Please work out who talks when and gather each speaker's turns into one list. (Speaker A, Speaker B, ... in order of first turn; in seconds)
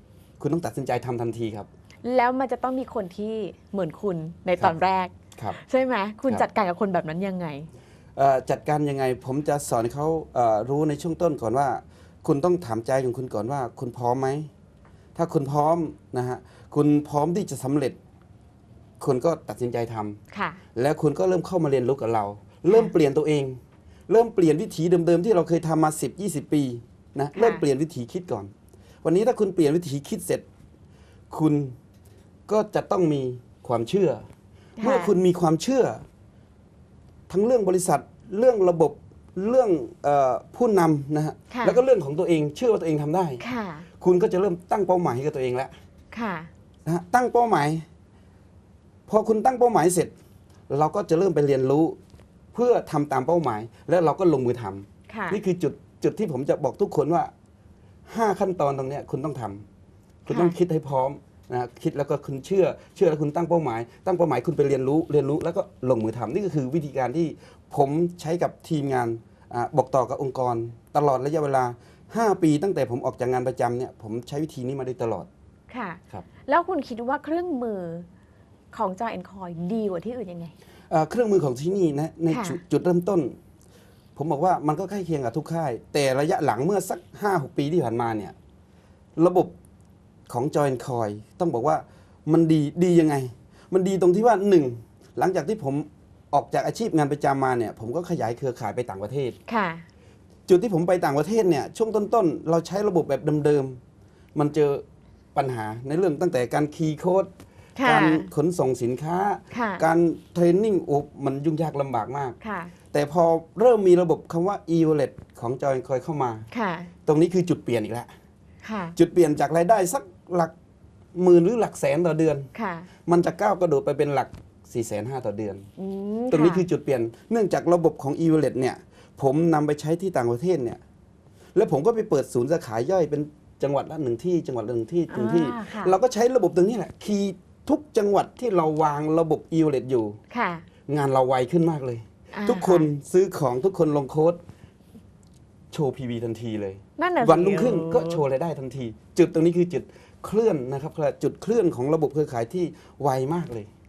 Speaker A: 0.4-1.7, 8.2-14.5, 15.2-18.0, 19.0-20.2, 20.8-28.5, 29.0-30.4, 31.3-31.8, 32.5-34.3, 34.8-36.0, 37.3-43.4, 44.0-45.7, 46.9-47.9, 49.1-50.1, 50.7-52.0, 52.5-57.3, 58.1-59.6, 60.3-75.3, 80.9-83.4, 84.2-88.3, 89.2-89.5, 90.3-99.4, 100.5-103.8, 104.3-104.8, 105.3-112.4, 112.9-116.5, 117.1-118.1, 119.0-120.5, 121.2-122.5, 123.1-125.7, 126.3-130.8, 131.6-140.2, 140.9-144.4, 145.7-153.7
Speaker B: 2.0-7.7, 20.3-20.6, 27.4-27.6, 34.8-35.1, 41.5-41.8, 43.4-43.9, 46.1-46.5, 55.1-55.4, 60.3-60.6, 75.7-78.1, 78.7-80.5, 82.3-82.6, 99.5-99.9, 107.8-108.3, 109.5-109.8, 112.4-112.7, 116.5-116.9, 118.6-119.0, 122.5-122.9, 125.8-126.7, 135.1-136.0, 140.3-140.7, 142.3-142.9, 147.0-148.2